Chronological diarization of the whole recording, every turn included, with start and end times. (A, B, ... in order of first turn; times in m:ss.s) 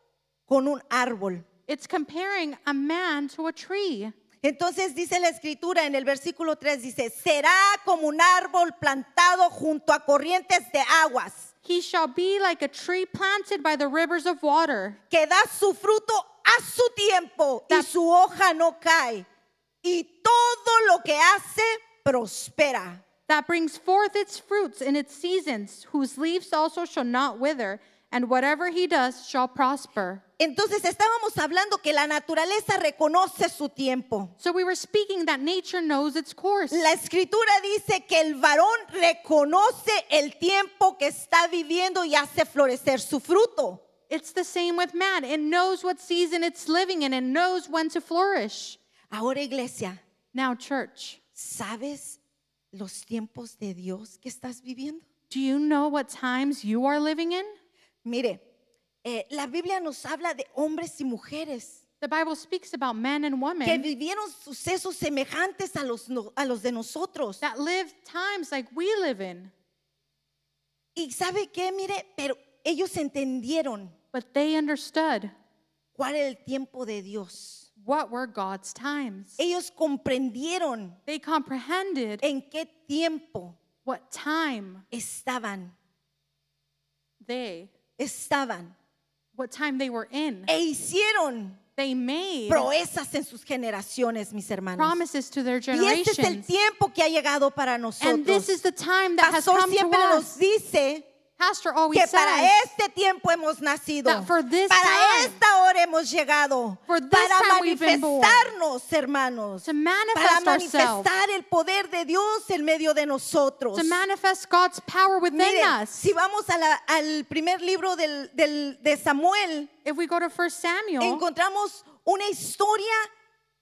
0:00.5-0:01.4 A
0:01.7-0:04.1 B
0:04.4-0:11.5 A
0:11.6-0:15.0 B
0:15.1-0:19.2 A
0:19.8-0:23.0 A
0:23.3-0:30.2 B
0:30.4-0:34.3 A
0:34.4-0:36.8 B
0:36.7-0:43.8 A
0:44.1-0:48.8 B
0:49.1-0:50.0 A
0:50.3-0:51.2 B
0:51.4-0:52.2 A
0:52.7-0:55.0 A
0:55.3-0:57.5 B
0:58.0-0:58.4 A
0:59.0-1:01.8 A
1:02.0-1:03.9 B
1:03.6-1:07.4 A
1:07.4-1:09.5 B
1:10.9-1:13.9 A
1:14.1-1:15.3 B
1:16.0-1:17.6 A
1:17.8-1:19.4 B
1:19.4-1:21.0 A
1:21.1-1:22.2 B
1:22.2-1:23.6 A
1:23.8-1:24.8 B
1:24.9-1:25.7 A
1:27.2-1:27.7 B
1:28.0-1:28.7 A
1:29.4-1:30.5 B
1:30.5-1:31.6 A
1:31.8-1:32.7 B
1:32.5-1:35.0 A
1:34.8-1:36.5 B
1:35.7-1:38.6 A
1:38.0-1:40.3 B
1:39.2-1:41.0 A
1:41.4-1:42.5 B
1:41.9-1:54.0 A
1:44.0-1:45.4 B
1:46.9-1:48.5 B
1:49.6-1:51.1 B
1:53.7-1:56.0 B
1:55.3-1:59.7 A
1:59.8-2:01.2 B
2:01.0-2:03.1 A